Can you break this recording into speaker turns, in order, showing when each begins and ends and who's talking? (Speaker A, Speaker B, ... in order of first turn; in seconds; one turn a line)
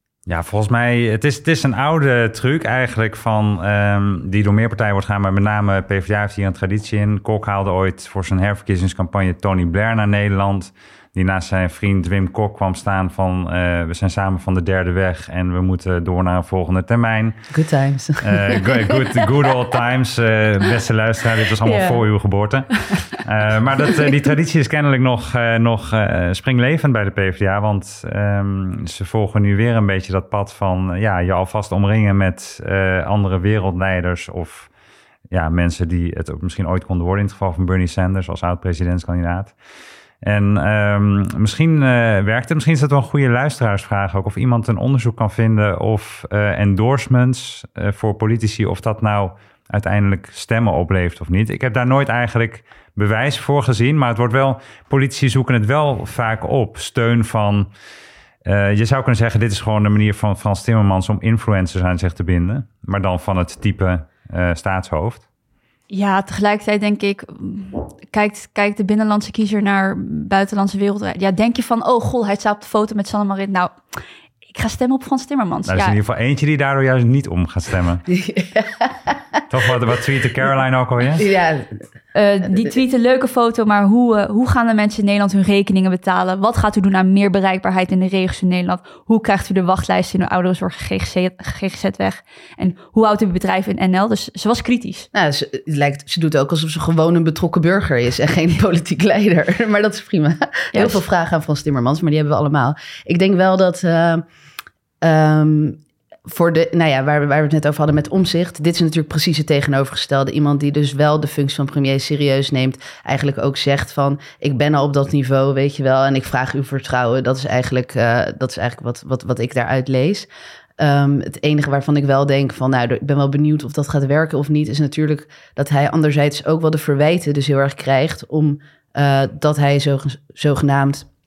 Speaker A: 0.3-17.3
Speaker B: 17.5-19.4
Speaker A: 18.2-34.7
Speaker B: 21.6-22.0
Speaker A: 35.3-39.5
Speaker A: 40.2-57.7
Speaker A: 58.4-65.2
Speaker C: 65.9-74.0
Speaker C: 74.5-76.0
Speaker A: 75.7-78.0
Speaker B: 78.1-79.4
Speaker A: 79.5-81.2
Speaker B: 81.2-81.8
Speaker C: 82.1-95.1
Speaker B: 95.1-104.2
Speaker C: 100.7-101.0
Speaker B: 105.0-120.3
Speaker B: 120.8-131.1